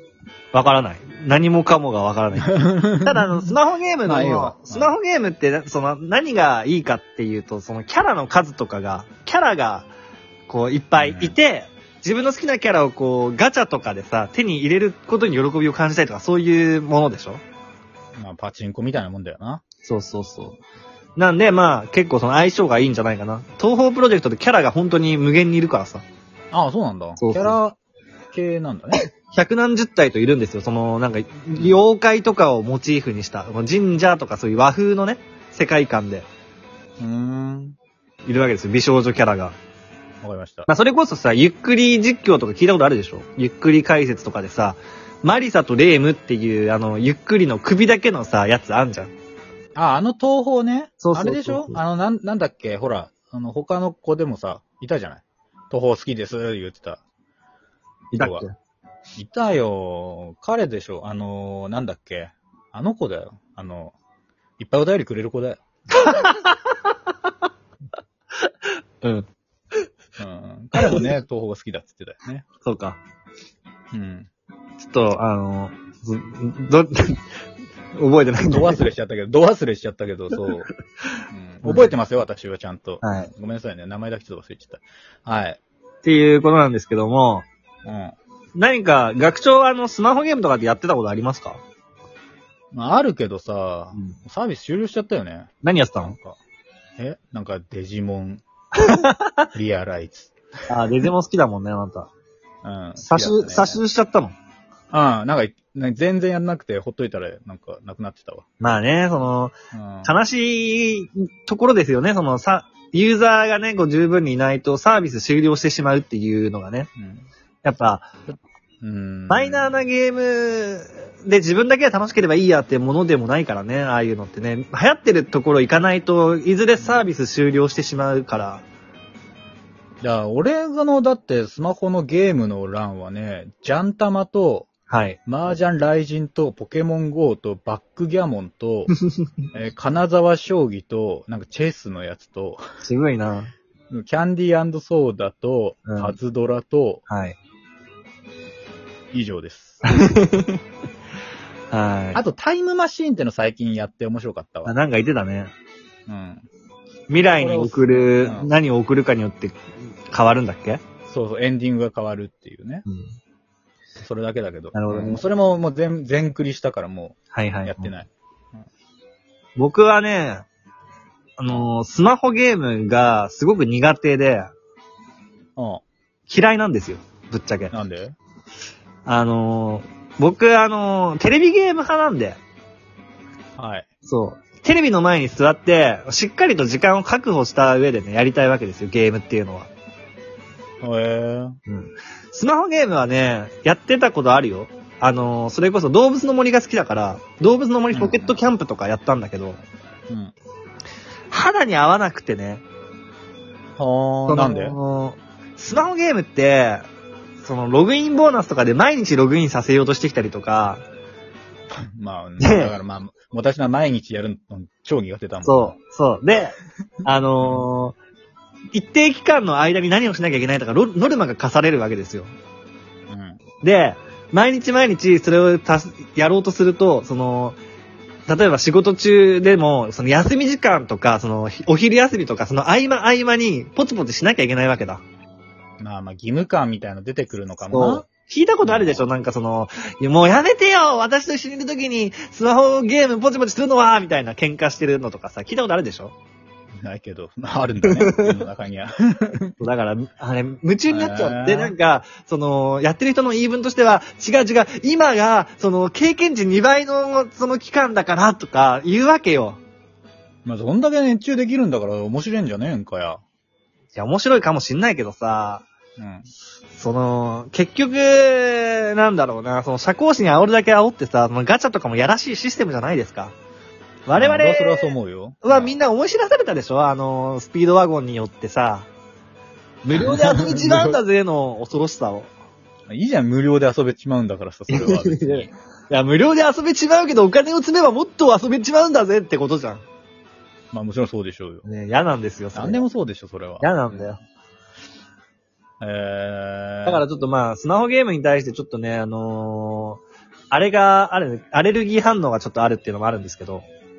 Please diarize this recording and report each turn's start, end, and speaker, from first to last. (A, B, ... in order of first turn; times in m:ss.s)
0:00.5-0:09.9 A
0:02.4-0:03.5 B
0:04.1-0:04.9 B
0:10.5-0:17.4 A
0:11.0-0:11.3 B
0:18.2-0:19.6 B
0:19.8-0:20.6 A
0:21.2-0:26.0 A
0:26.5-0:27.8 B
0:27.2-0:27.6 A
0:28.3-0:29.0 B
0:29.0-0:36.3 A
0:37.0-0:37.8 B
0:38.3-0:39.6 A
0:40.2-0:40.7 B
0:40.7-0:49.1 A
0:49.8-0:57.0 B
0:51.0-0:51.8 A
0:58.1-0:58.5 B
0:58.2-0:58.5 A
0:59.2-1:04.0 B
1:04.6-1:05.6 B
1:06.0-1:06.5 A
1:09.0-1:09.3 A
1:10.2-1:12.5 B
1:10.8-1:11.0 A
1:12.6-1:13.0 A
1:13.9-1:14.3 B
1:14.8-1:17.2 A
1:17.9-1:18.9 A
1:18.4-1:20.7 B
1:21.3-1:25.6 B
1:21.6-1:21.9 A
1:23.0-1:23.3 A
1:26.0-1:27.5 A
1:27.8-1:28.2 B
1:28.6-1:31.6 A
1:32.7-1:35.5 B
1:35.6-1:36.2 A
1:36.1-1:36.4 B
1:37.0-1:38.4 B
1:38.8-1:39.4 A
1:39.5-1:40.3 B
1:40.7-1:42.1 A
1:42.6-1:43.8 B
1:43.0-1:44.4 A
1:44.9-1:48.4 B
1:48.6-1:56.9 A
1:49.7-1:50.2 B
1:57.0-1:57.3 B
1:57.6-1:58.1 A
1:58.3-1:59.9 B
1:59.3-2:08.6 A
2:10.0-2:14.7 B
2:14.9-2:15.2 A
2:15.3-2:18.9 B
2:19.5-2:22.6 B
2:22.8-2:23.5 A
2:23.9-2:27.0 B
2:25.9-2:26.2 A
2:27.1-2:27.4 A
2:29.1-2:29.8 B
2:29.8-2:30.5 A
2:31.7-2:32.2 A
2:32.2-2:34.7 B
2:34.7-2:35.5 A
2:36.1-2:36.4 B
2:37.1-2:40.8 A
2:37.4-2:38.5 B
2:41.1-2:42.8 B
2:42.9-2:43.1 A
2:44.0-2:48.1 B
2:44.7-2:45.2 A
2:47.3-2:47.9 A
2:49.6-2:50.5 A
2:51.4-2:54.5 A
2:55.6-2:55.8 B
2:56.3-2:57.7 A
2:57.7-2:58.2 B
2:59.1-3:02.4 A
3:03.6-3:03.9 B
3:04.0-3:09.7 A
3:10.8-3:11.6 B
3:11.7-3:19.6 A
3:17.9-3:18.3 B
3:21.3-3:22.6 A
3:23.8-3:24.8 B
3:24.3-3:26.8 A
3:27.4-3:30.8 A
3:31.7-3:35.8 B
3:32.4-3:32.7 A
3:35.4-3:38.0 A
3:37.4-3:37.7 B
3:38.7-3:42.3 A
3:43.1-3:43.4 B
3:43.6-3:47.6 A
3:48.3-3:55.0 A
3:55.8-3:58.0 B
3:57.7-4:06.2 A
3:58.6-3:59.1 B
4:06.8-4:09.6 B
4:07.8-4:08.4 A
4:09.6-4:19.6 A
4:10.9-4:11.7 B
4:20.4-4:23.2 B
4:23.9-4:25.7 A
4:26.0-4:26.3 B
4:26.7-4:33.4 A
4:34.1-4:38.9 A
4:34.2-4:35.7 B
4:39.8-4:42.3 A
4:40.0-4:41.0 B
4:42.9-4:45.5 B
4:44.7-4:49.8 A
4:50.7-4:51.6 B
4:51.6-4:52.9 A
4:52.6-4:54.0 B
4:53.6-4:54.2 A
4:55.8-4:57.0 B
4:56.9-5:00.0 A
5:00.5-5:03.7 A